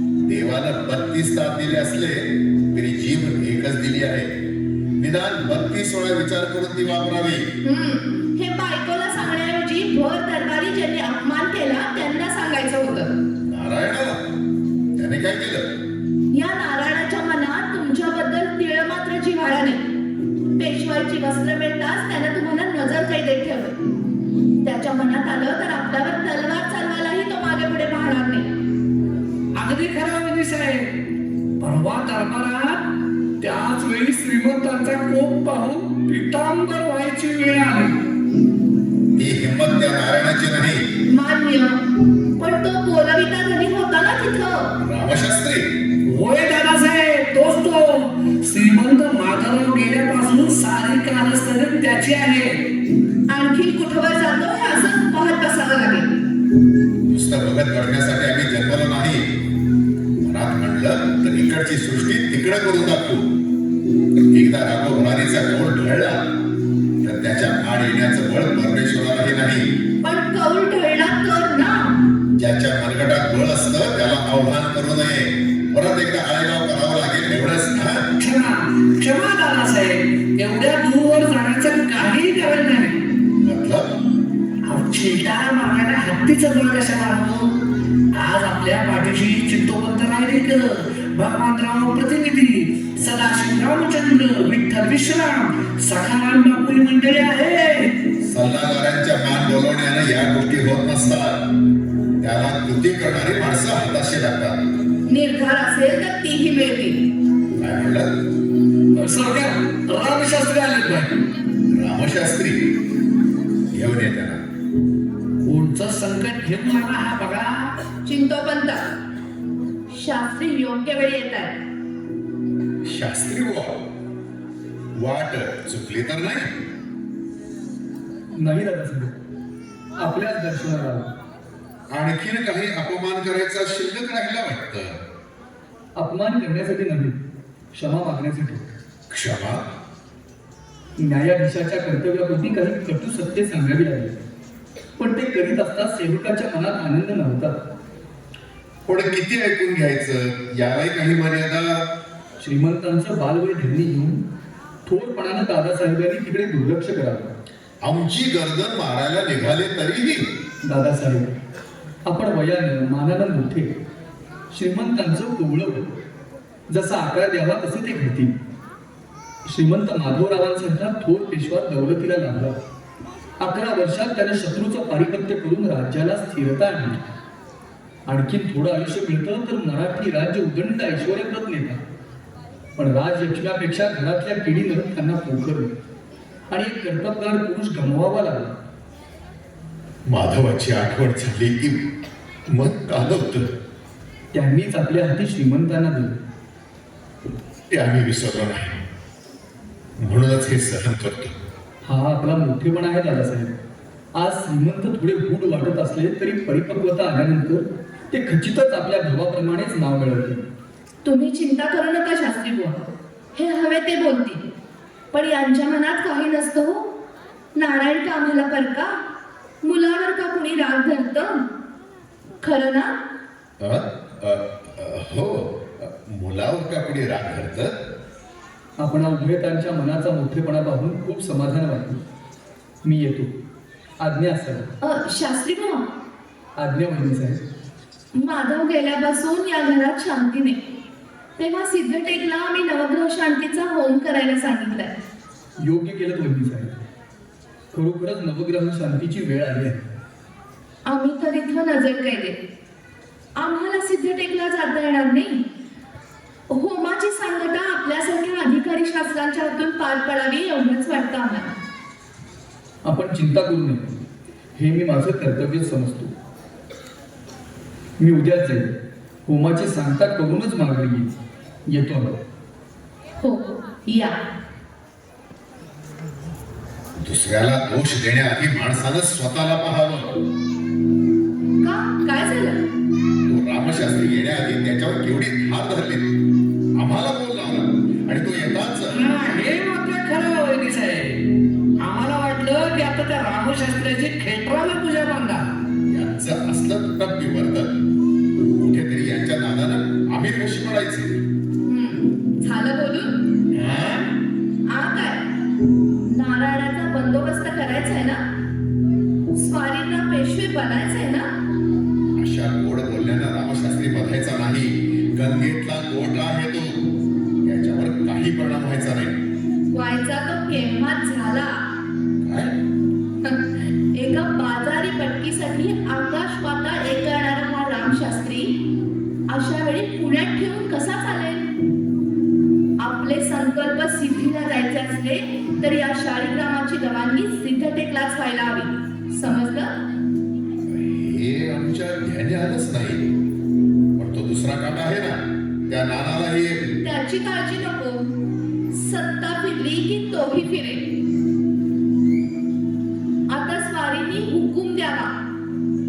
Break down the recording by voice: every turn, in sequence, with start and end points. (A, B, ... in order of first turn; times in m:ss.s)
0:00.2-0:04.3 A
0:05.0-0:07.4 A
0:07.6-0:13.1 B
0:13.4-0:14.2 A
0:15.0-0:15.6 A
0:16.3-0:19.8 B
0:20.6-0:23.7 B
0:24.6-0:28.5 B
0:29.6-0:30.9 C
0:31.6-0:32.9 C
0:33.4-0:37.9 C
0:39.2-0:40.8 A
0:41.1-0:41.8 B
0:42.4-0:44.7 B
0:44.8-0:45.6 A
0:46.0-0:52.5 C
0:53.3-0:56.1 B
0:57.1-0:59.2 A
1:00.2-1:03.2 A
1:04.3-1:06.2 A
1:07.0-1:09.6 A
1:10.0-1:12.0 B
1:12.3-1:18.0 A
1:18.2-1:23.0 C
1:23.4-1:23.9 A
1:24.6-1:27.6 C
1:28.1-1:37.9 C
1:38.2-1:41.4 A
1:42.2-1:44.6 A
1:45.1-1:47.0 B
1:47.6-1:48.1 A
1:48.9-1:51.2 C
1:51.7-1:52.6 A
1:53.7-1:54.4 A
1:55.4-1:57.7 C
1:58.0-1:58.8 B
1:59.9-2:01.5 B
2:02.8-2:03.8 A
2:05.0-2:06.5 A
2:08.4-2:09.1 D
2:10.0-2:11.1 D
2:11.9-2:15.0 A
2:16.0-2:17.2 D
2:17.7-2:18.7 D
2:19.1-2:19.6 A
2:21.0-2:24.2 D
2:25.0-2:27.5 D
2:28.9-2:31.8 A
2:32.4-2:34.2 D
2:34.8-2:37.3 D
2:37.8-2:40.2 A
2:40.6-2:41.3 D
2:42.0-2:43.7 D
2:44.5-2:45.9 D
2:46.7-2:48.3 D
2:49.4-2:52.6 D
2:53.4-2:57.0 D
2:58.1-3:01.8 D
3:02.8-3:05.7 D
3:06.5-3:08.5 D
3:10.1-3:11.8 A
3:12.5-3:13.5 A
3:14.3-3:16.2 D
3:17.7-3:18.8 A
3:20.0-3:21.3 A
3:21.8-3:23.5 D
3:24.2-3:30.4 D
3:31.0-3:34.4 B
3:35.1-3:36.9 B
3:37.6-3:38.9 B
3:39.6-3:41.3 B
3:42.4-3:42.9 B
3:43.6-3:47.7 A
3:48.8-3:52.0 D
3:52.8-3:53.3 D
3:54.0-3:54.7 D
3:54.8-3:55.8 B
3:56.6-3:57.4 D
3:58.2-4:00.6 B
4:01.4-4:04.9 B
4:05.6-4:06.7 D
4:07.7-4:09.8 D
4:10.9-4:12.4 B
4:13.4-4:15.4 B
4:16.5-4:21.5 B
4:22.8-4:24.0 D
4:24.6-4:26.1 D
4:28.0-4:28.7 D
4:29.2-4:31.1 D
4:31.7-4:32.2 D
4:33.2-4:34.2 B
4:37.0-4:40.1 A
4:41.6-4:42.6 B
4:43.2-4:46.1 A
4:46.8-4:49.0 A
4:48.9-4:51.2 C
4:51.8-4:55.4 C
4:55.9-4:57.7 A
4:58.4-5:01.1 A
5:01.6-5:03.1 B
5:03.5-5:04.1 C
5:04.7-5:05.2 B
5:06.0-5:08.2 B
5:09.3-5:11.3 B
5:12.2-5:16.7 A
5:17.4-5:19.2 A
5:19.7-5:21.6 B
5:22.2-5:22.5 A
5:23.2-5:28.6 B
5:29.3-5:31.5 B
5:32.8-5:39.7 B
5:40.7-5:43.1 A
5:44.0-5:45.2 A
5:45.7-5:46.6 A
5:46.8-5:48.0 B
5:48.7-5:50.8 B
5:53.3-5:55.1 B